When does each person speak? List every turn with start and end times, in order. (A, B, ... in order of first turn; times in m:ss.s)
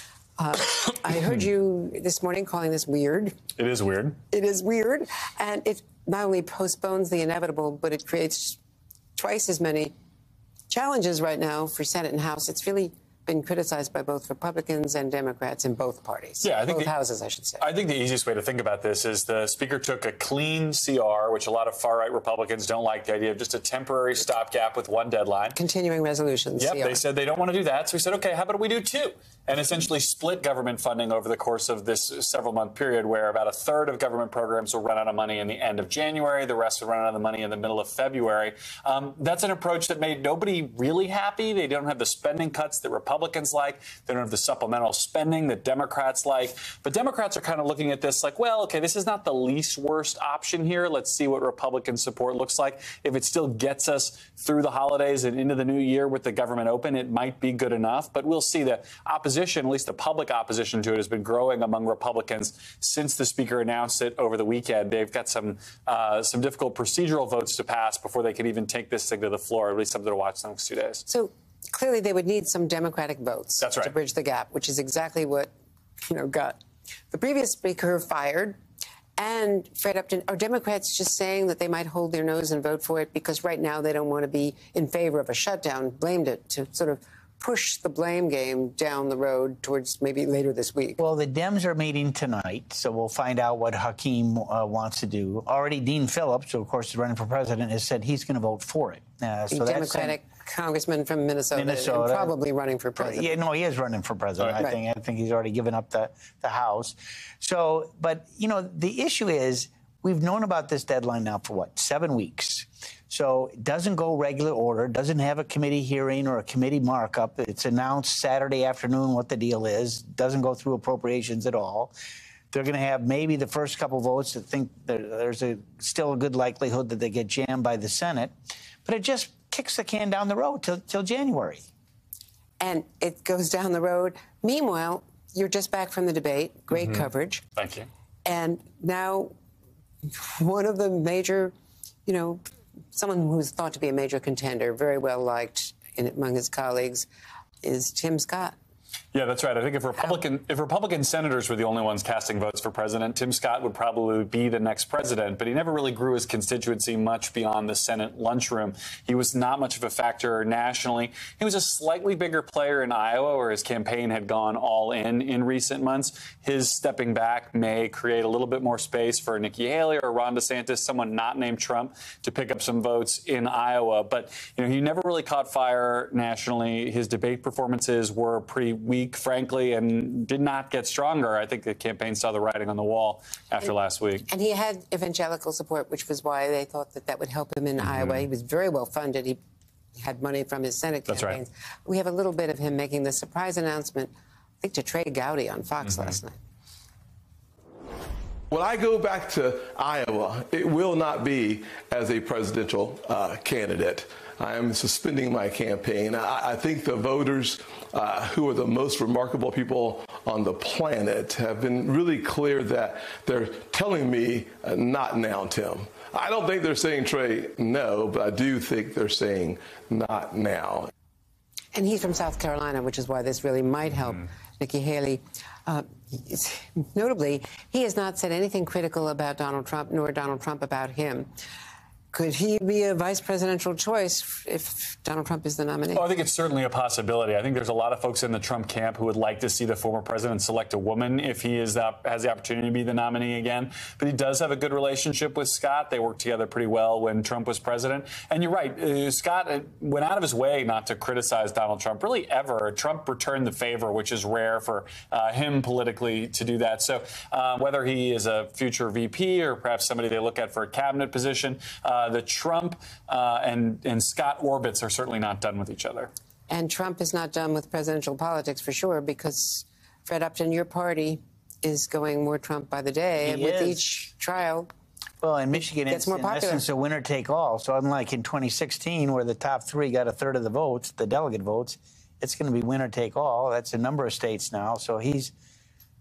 0:00.4-0:03.4 A
0:03.6-0:04.2 B
0:04.3-0:08.6 A
0:09.2-0:09.9 A
0:10.7-0:17.6 A
0:16.4-0:16.9 B
0:17.6-0:25.6 B
0:25.5-0:27.0 A
0:26.6-1:11.0 B
1:11.1-1:15.5 A
1:13.6-1:13.9 B
1:16.0-1:16.6 A
1:17.1-1:18.6 A
1:19.2-1:31.0 A
1:31.0-1:40.2 C
1:39.5-1:43.3 A
1:41.5-1:42.3 C
1:43.0-2:01.9 C
2:02.5-2:08.3 C
2:08.8-2:11.6 C
2:12.6-2:17.4 A
2:17.6-2:17.9 B
2:18.2-2:19.3 A
2:20.0-2:21.5 A
2:22.0-2:22.4 A
2:22.9-2:27.1 A
2:27.6-2:28.5 A
2:29.1-3:04.3 B
3:04.3-3:09.4 A
3:07.8-3:08.2 B
3:09.9-3:16.4 A
3:11.1-3:11.4 B
3:18.5-3:40.9 D
3:41.7-3:51.3 A
3:52.1-3:56.1 A
3:55.9-4:26.1 B
4:26.5-4:34.7 A
4:33.2-4:33.8 C
4:35.2-4:45.3 C
4:35.8-4:36.6 A